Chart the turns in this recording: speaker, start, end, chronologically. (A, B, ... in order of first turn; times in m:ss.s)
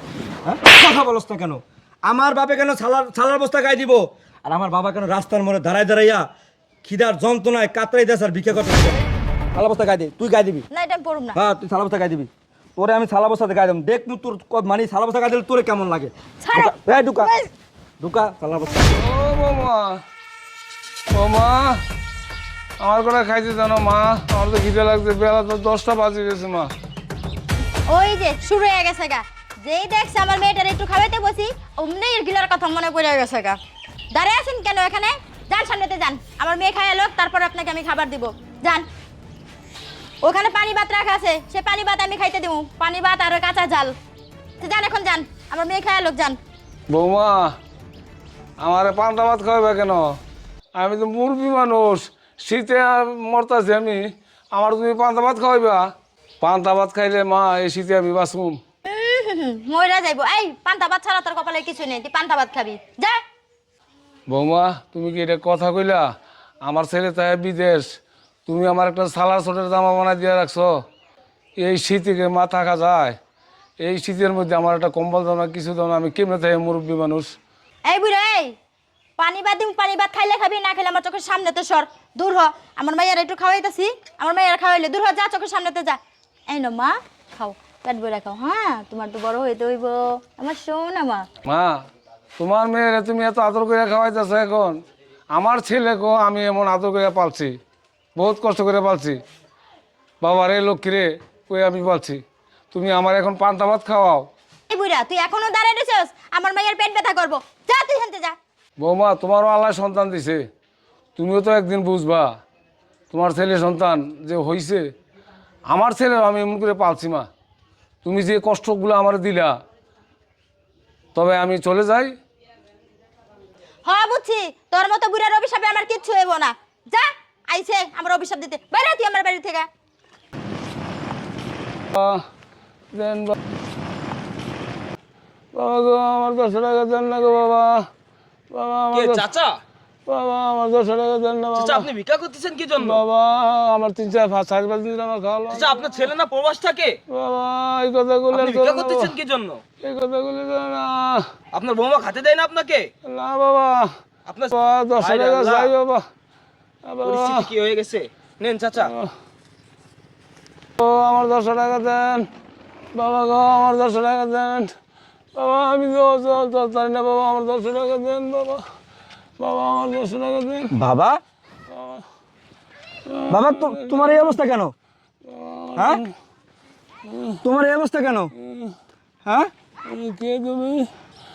0:00.4-0:06.2 A
0:06.8-0:09.0 A
0:09.5-0:10.6 A
0:10.7-0:11.4 B
0:11.4-0:17.3 A
0:16.4-0:17.5 B
0:18.0-0:19.0 A
0:19.0-0:20.0 C
0:21.1-0:21.8 C
0:22.8-0:26.7 C
0:27.9-0:33.6 B
0:34.1-0:38.9 B
0:40.2-0:44.0 B
0:44.6-0:46.4 B
0:46.9-0:47.6 C
0:48.6-0:50.2 C
0:50.8-0:55.9 C
0:56.4-0:58.6 C
0:58.9-1:03.2 B
1:04.3-1:06.1 C
1:06.6-1:07.9 C
1:08.5-1:10.7 C
1:11.6-1:13.2 C
1:13.8-1:17.3 C
1:17.9-1:18.6 B
1:19.2-1:31.3 B
1:31.4-1:31.8 C
1:32.4-1:34.8 C
1:35.3-1:37.6 C
1:38.2-1:39.2 C
1:40.2-1:44.3 C
1:44.7-1:48.4 B
1:48.8-1:50.4 C
1:51.2-1:52.3 C
1:53.1-1:54.8 C
1:55.7-1:57.3 C
1:58.0-1:59.6 C
2:01.2-2:02.2 C
2:03.8-2:09.7 B
2:11.9-2:12.2 C
2:12.9-2:13.4 C
2:15.5-2:17.9 C
2:18.5-2:19.3 C
2:18.9-2:19.6 D
2:20.1-2:21.9 C
2:21.6-2:23.0 D
2:22.8-2:26.0 C
2:25.5-2:27.0 D
2:27.1-2:29.2 C
2:28.3-2:29.6 D
2:29.8-2:31.3 C
2:31.5-2:32.9 D
2:33.0-2:34.0 C
2:34.3-2:35.7 D
2:34.5-2:36.0 C
2:36.9-2:37.5 C
2:37.0-2:38.9 D
2:38.9-2:39.1 C
2:40.8-2:42.3 C
2:42.9-2:44.7 C
2:45.4-2:48.6 C
2:49.4-2:50.7 C
2:50.7-2:51.2 A
2:51.8-2:52.0 C
2:53.1-2:54.2 C
2:53.3-2:54.7 A
2:55.3-2:56.1 C
2:55.8-2:56.0 A
2:57.1-2:57.4 C
2:57.4-2:58.3 A
2:59.3-2:59.5 A
2:59.9-3:00.9 C